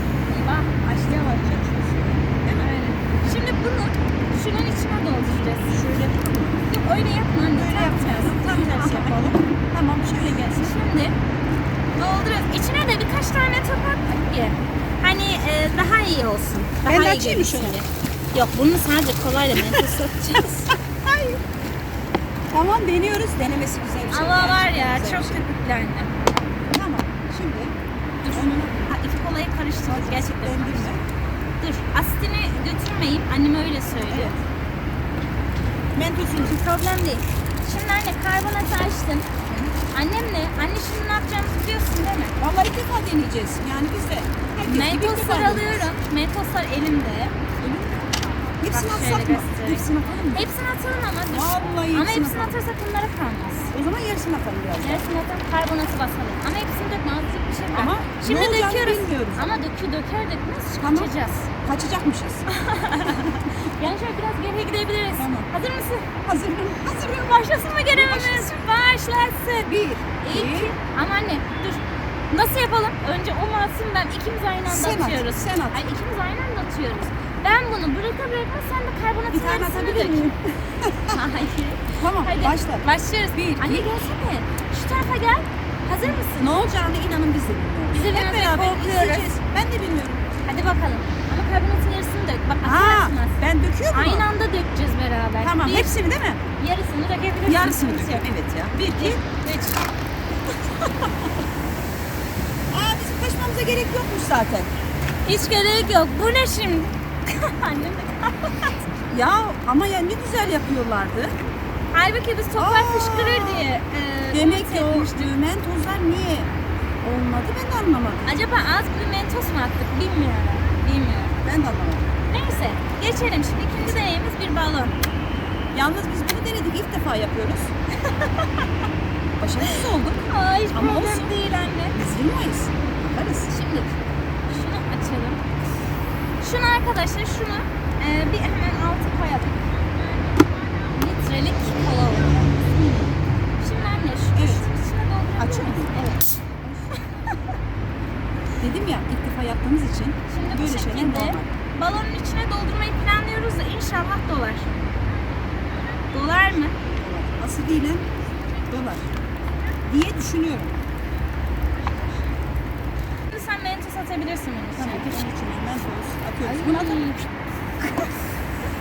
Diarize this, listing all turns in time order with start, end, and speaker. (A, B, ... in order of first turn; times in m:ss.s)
0:00.3-0:00.7 A
0:00.8-0:02.7 B
0:02.6-0:05.9 A
0:05.7-0:06.6 B
0:06.6-0:09.2 A
0:07.4-0:10.7 B
0:10.5-0:11.2 A
0:12.0-0:20.6 A
0:16.8-0:17.8 B
0:19.7-0:21.4 B
0:22.5-0:25.5 B
0:24.1-0:26.2 A
0:26.7-0:27.8 B
0:28.2-0:30.9 A
0:28.3-0:29.0 B
0:29.9-0:31.0 B
0:31.6-0:34.4 A
0:34.1-0:34.4 B
0:36.0-0:36.6 B
0:36.3-0:42.4 A
0:42.4-0:45.9 B
0:44.6-0:47.4 A
0:47.6-0:50.5 B
0:48.7-0:53.7 A
0:51.3-0:52.6 B
0:53.7-0:55.0 B
0:54.8-1:01.5 A
0:57.7-0:59.6 B
1:00.8-1:01.1 B
1:01.6-1:02.5 B
1:02.5-1:06.1 A
1:05.2-1:05.5 B
1:06.2-1:08.6 B
1:07.1-1:20.3 A
1:09.7-1:10.7 B
1:14.7-1:15.8 B
1:19.3-1:21.2 B
1:21.1-1:26.7 A
1:22.0-1:23.9 B
1:26.4-1:30.2 B
1:27.9-1:29.3 A
1:30.4-1:35.9 A
1:32.6-1:34.3 B
1:35.4-1:36.4 B
1:36.6-1:38.3 A
1:37.5-1:39.2 B
1:38.9-1:39.8 A
1:42.7-1:44.7 B
1:45.2-1:48.7 A
1:49.1-1:51.4 B
1:51.9-1:55.3 A
1:52.6-1:53.7 B
1:54.3-1:56.5 B
1:57.0-1:58.4 B
1:58.2-2:01.4 A
2:01.4-2:02.1 B
2:02.3-2:05.0 A
2:05.7-2:07.7 B
2:08.1-2:08.6 A
2:09.4-2:11.3 B
2:10.3-2:12.0 A
2:11.9-2:13.5 B
2:13.5-2:14.0 A
2:14.5-2:15.4 A
2:16.4-2:19.8 A
2:20.9-2:22.4 A
2:22.3-2:23.2 B
2:23.6-2:26.3 A
2:24.3-2:24.7 B
2:25.4-2:25.9 B
2:28.6-2:31.5 B
2:30.3-2:34.9 A
2:36.1-2:36.8 A
2:36.9-2:38.1 B
2:38.7-2:39.1 B
2:39.8-2:40.8 B
2:43.3-2:45.3 A
2:44.8-2:47.2 B
2:46.4-2:47.2 A